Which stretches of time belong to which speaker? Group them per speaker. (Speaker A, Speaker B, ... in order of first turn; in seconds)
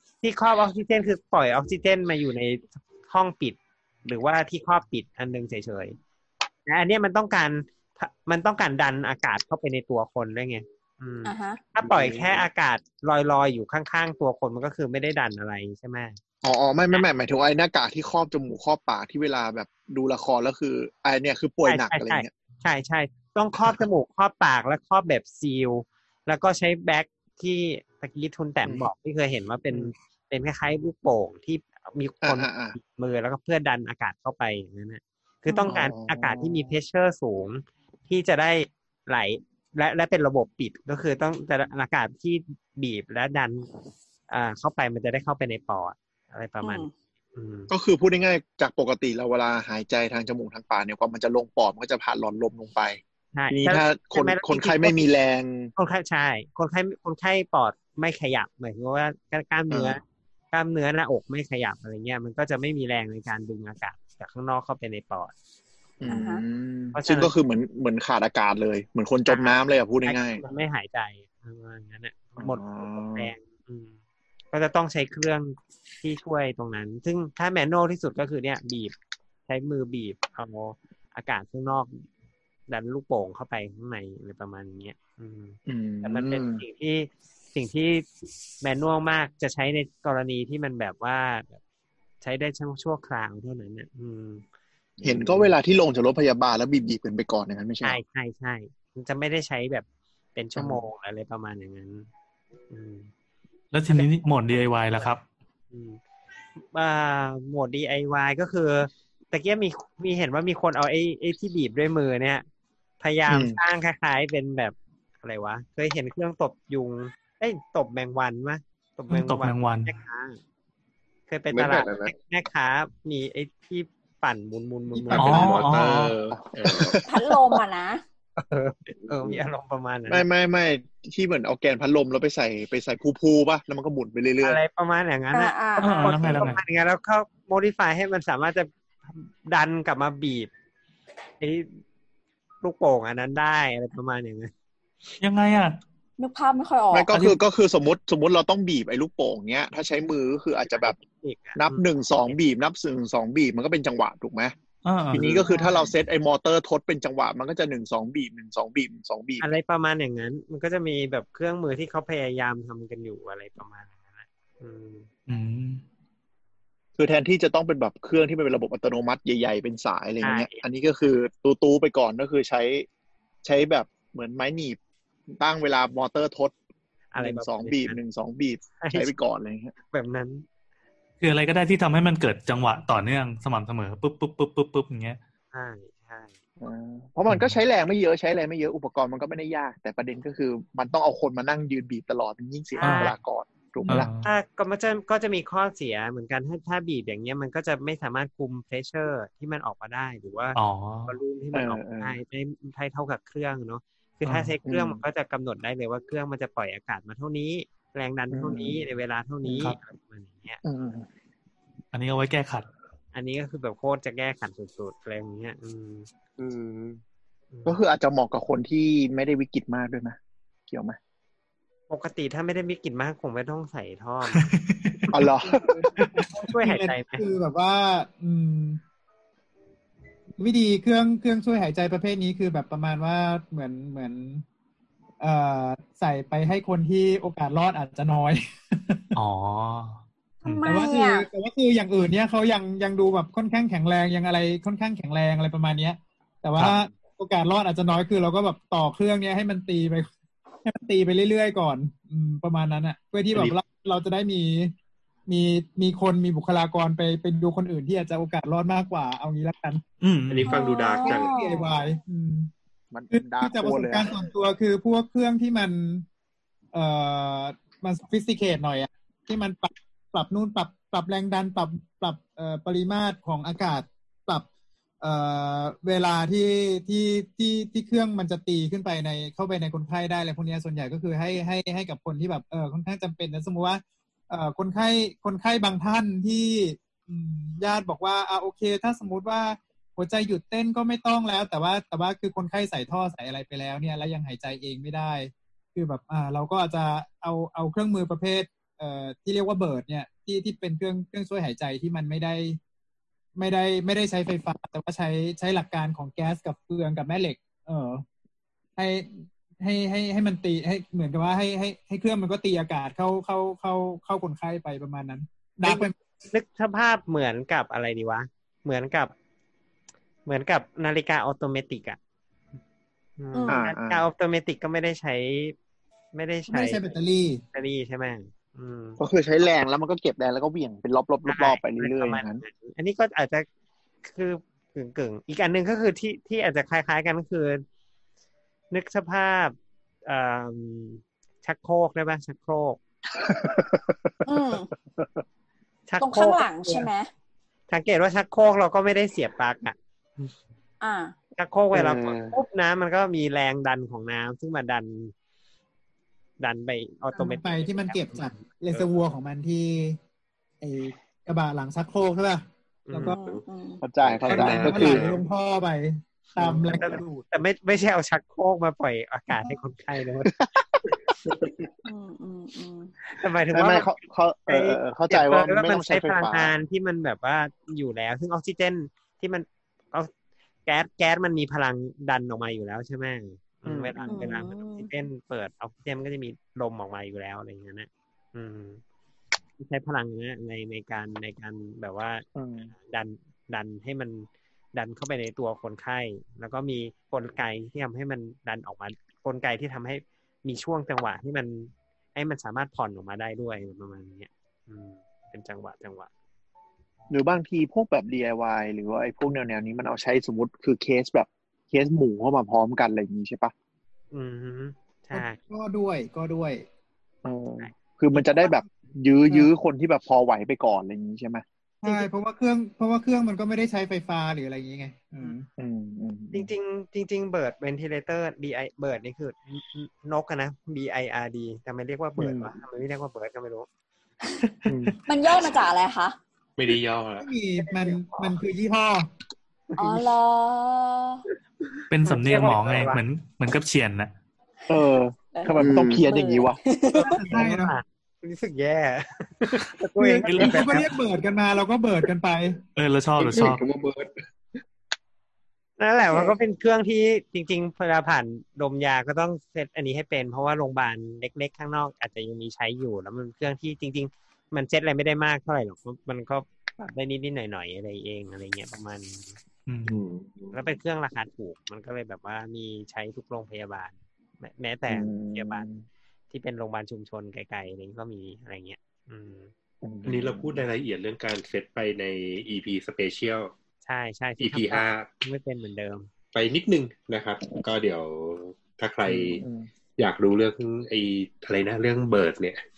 Speaker A: 0.2-6.0, 6.7-16.2, 21.6-43.7, 44.3-47.7, 53.3-55.0, 55.8-65.3, 66.9-67.3, 69.3-73.9, 74.5-78.9, 79.5-82.0, 82.7-88.1, 88.6-91.6, 92.2-94.4, 95.0-95.5, 97.8-102.1, 102.7-103.1, 105.7-106.0, 106.6-112.5, 113.0-120.4, 121.3-125.5, 128.4-130.2, 134.4-140.5, 141.4-141.8, 142.6-144.5, 150.7-152.4, 155.2-155.5, 159.4-165.1, 170.2-170.6, 177.1-178.0, 178.8-179.1, 179.9-180.5, 185.5-186.3, 192.8-193.2, 194.2-200.6, 201.1-210.6, 213.1-216.1, 217.5-217.8, 221.9-225.1, 226.4-227.2, 315.6-319.1, 320.3-322.0, 323.2-325.6, 326.1-326.9, 327.5-329.0, 331.3-333.5, 334.1-337.6, 338.7-342.8, 345.9-346.9, 347.7-350.3, 351.4-355.1, 356.4-358.9, 362.9-363.2, 366.8-370.3, 373.1-373.9, 374.5-380.1, 380.7-388.8, 389.6-392.2, 392.8-406.1, 414.1-415.4, 417.6-418.2, 426.3-433.7, 442.1-443.0, 447.1-450.9, 455.8-469.4, 470.5-475.7, 476.3-479.5, 483.8-486.1
Speaker B: 11.2-11.6, 35.5-35.8, 46.6-46.9, 66.1-66.4, 127.0-128.0, 135.3-136.2, 146.2-147.1, 240.4-241.3, 260.4-261.7, 323.3-323.6, 344.2-344.7, 346.0-347.1, 350.8-351.1, 363.1-363.8, 371.9-372.9, 384.1-384.9, 435.1-436.2, 439.8-441.2, 445.3-447.2
Speaker C: 11.8-12.4, 16.4-22.3, 32.2-32.8, 35.6-36.7, 47.7-53.0, 53.5-55.7, 59.7-60.0, 66.0-70.4, 72.4-73.3, 85.7-86.6, 95.0-98.0, 100.6-100.8, 113.3-113.6, 126.5-127.6, 130.1-134.6, 136.2-136.5, 146.9-151.0, 151.6-154.5, 155.1-159.5, 167.0-172.9, 173.4-176.5, 177.2-179.7, 186.6-194.1, 201.5-202.2, 204.7-205.0, 208.3-208.8, 210.6-211.1, 217.7-220.2, 220.7-221.0, 225.1-225.7, 262.9-264.1, 323.5-324.0, 329.0-332.4, 343.2-344.1, 363.8-365.1, 370.3-370.8, 373.5-376.5, 383.7-384.3, 392.4-392.7, 407.1-413.5, 417.2-421.4, 425.6-426.5, 432.2-432.6, 434.7-434.9, 444.7-446.6, 474.9-475.8, 479.8-480.6, 489.1-489.7
Speaker D: 103.7-105.2, 119.1-119.9, 125.2-126.2, 135.8-136.6, 145.2-145.8, 147.1-147.4, 154.8-155.5, 165.3-165.8, 181.2-185.2, 187.3-187.5, 192.8-193.1, 193.9-194.3, 200.6-201.2, 204.2-204.5, 209.5-209.8, 211.9-212.7, 224.3-224.9, 239.2-240.7, 260.0-260.6, 441.9-444.1, 450.3-450.9, 452.8-453.6, 469.7-470.0
Speaker E: 121.5-122.1, 129.0-129.4, 216.4-217.0, 445.6-446.1, 453.2-454.1, 469.9-470.6
Speaker F: 125.1-127.0, 260.3-261.5, 351.7-352.4, 364.0-365.2, 436.6-437.3, 480.1-483.5, 484.4-485.1, 486.3-489.4, 490.0-492.6
Speaker G: 225.4-228.8, 230.4-234.4, 235.2-239.2, 240.6-250.1, 250.7-254.7, 255.3-259.8, 261.0-262.5, 263.1-266.1, 266.7-274.5, 275.0-302.6, 303.4-308.0, 308.8-316.0, 326.5-327.4, 357.1-360.0, 360.6-363.2, 364.3-367.3, 415.1-416.6, 421.8-425.5, 437.2-439.1, 447.0-447.8, 450.0-452.6